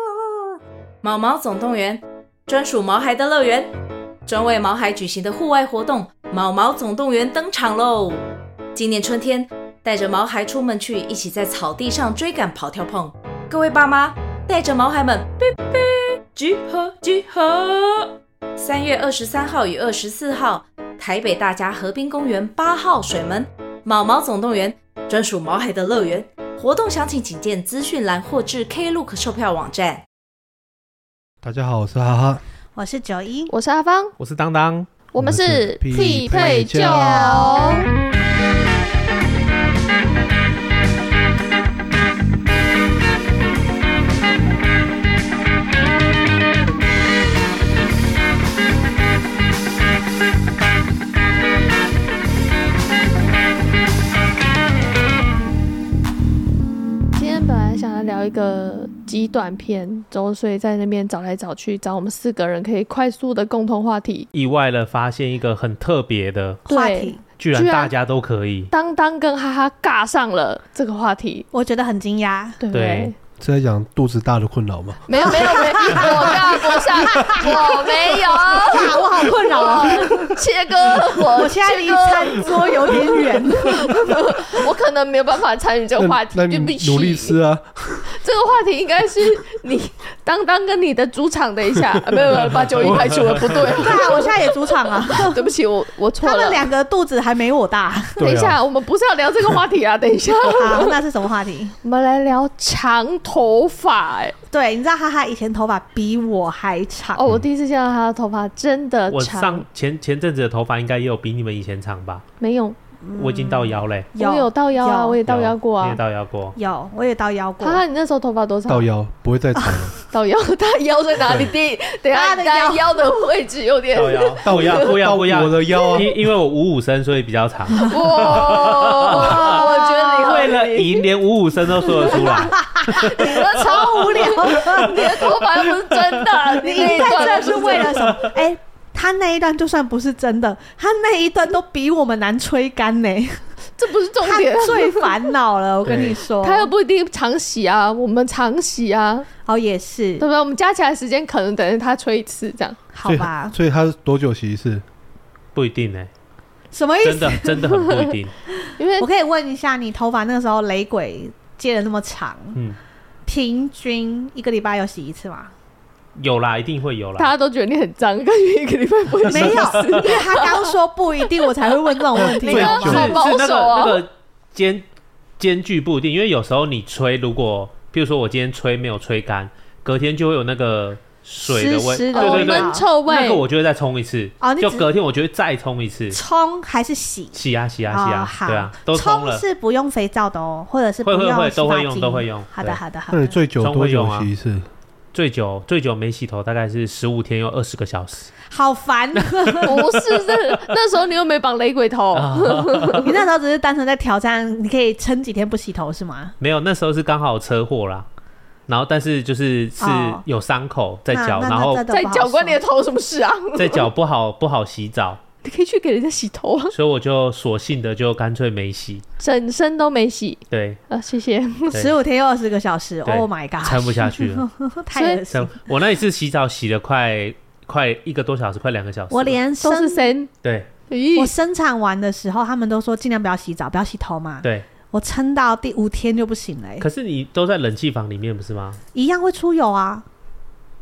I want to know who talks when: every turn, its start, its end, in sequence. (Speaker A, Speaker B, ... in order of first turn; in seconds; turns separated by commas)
Speaker A: 1.0-3.7, Speaker A: 4.2-30.0, Speaker B: 31.4-32.4, Speaker C: 32.7-33.5, Speaker D: 33.5-34.1, Speaker E: 34.2-34.9, Speaker D: 35.1-37.9, Speaker B: 35.2-37.4, Speaker C: 36.7-37.8, Speaker D: 57.1-64.3, Speaker E: 64.3-66.6, Speaker C: 66.7-67.2, Speaker D: 66.7-67.9, Speaker E: 67.4-68.7, Speaker D: 68.7-71.5, Speaker C: 71.5-72.6, Speaker D: 72.6-73.1, Speaker E: 72.7-73.1, Speaker B: 73.4-76.4, Speaker D: 75.0-87.4, Speaker C: 75.2-80.4, Speaker B: 77.2-77.5, Speaker C: 80.9-84.0, Speaker B: 86.0-88.1, Speaker D: 88.1-96.7, Speaker E: 92.5-93.6, Speaker B: 92.8-93.7, Speaker C: 93.7-95.5, Speaker C: 96.2-98.2, Speaker D: 98.2-101.0, Speaker E: 98.2-98.6, Speaker C: 100.5-101.7, Speaker D: 101.8-104.3, Speaker C: 104.5-107.2, Speaker D: 107.1-109.6, Speaker E: 109.1-112.2, Speaker D: 112.4-112.8, Speaker C: 113.0-115.2, Speaker E: 113.2-114.1, Speaker D: 114.1-116.0, Speaker E: 115.3-116.6, Speaker C: 116.5-117.8, Speaker D: 117.6-118.9, Speaker B: 118.7-119.9, Speaker C: 119.6-119.9, Speaker D: 120.1-124.9, Speaker B: 121.2-121.5, Speaker C: 122.1-122.9, Speaker E: 123.9-134.3, Speaker B: 124.4-126.3, Speaker D: 127.8-131.1, Speaker C: 129.1-130.4, Speaker D: 131.8-132.3, Speaker C: 131.9-135.3, Speaker D: 132.8-138.2, Speaker C: 136.5-143.4, Speaker E: 136.8-138.2, Speaker D: 143.8-145.2, Speaker C: 144.2-146.7, Speaker E: 145.8-146.2, Speaker D: 146.4-149.3, Speaker C: 149.4-150.2, Speaker D: 150.2-152.8, Speaker C: 152.9-153.5, Speaker B: 153.0-154.8, Speaker E: 155.5-156.1, Speaker C: 156.7-157.8, Speaker E: 157.0-158.3, Speaker D: 158.8-159.1, Speaker C: 159.0-162.6, Speaker C: 163.3-165.5, Speaker E: 166.2-167.3, Speaker D: 167.2-170.7, Speaker C: 169.3-173.1, Speaker E: 169.3-169.9, Speaker D: 172.1-174.0, Speaker B: 172.4-173.2, Speaker E: 172.5-174.8, Speaker E: 175.4-186.2, Speaker C: 181.4-182.8, Speaker D: 182.1-183.4, Speaker C: 184.4-184.9, Speaker C: 186.1-187.4, Speaker E: 187.3-189.4, Speaker C: 187.9-193.3, Speaker E: 191.0-192.8, Speaker B: 193.1-194.7, Speaker E: 193.6-194.3, Speaker E: 195.1-198.3, Speaker C: 198.5-199.9, Speaker E: 199.1-199.6, Speaker D: 199.6-203.1, Speaker E: 202.1-203.1, Speaker C: 203.0-206.3, Speaker E: 206.4-208.1, Speaker E: 208.7-211.8, Speaker C: 209.8-210.2, Speaker C: 211.1-212.6, Speaker D: 211.9-213.9, Speaker E: 213.5-215.2, Speaker D: 215.4-216.7, Speaker E: 216.7-219.0, Speaker D: 219.2-221.8, Speaker E: 220.5-220.8, Speaker C: 221.7-225.5, Speaker E: 223.0-224.5, Speaker D: 224.9-225.2, Speaker E: 225.3-229.4, Speaker C: 229.1-230.1, Speaker D: 229.6-230.3, Speaker E: 230.4-230.7, Speaker D: 230.9-231.3, Speaker C: 231.1-236.9, Speaker E: 236.8-238.8, Speaker C: 238.9-240.0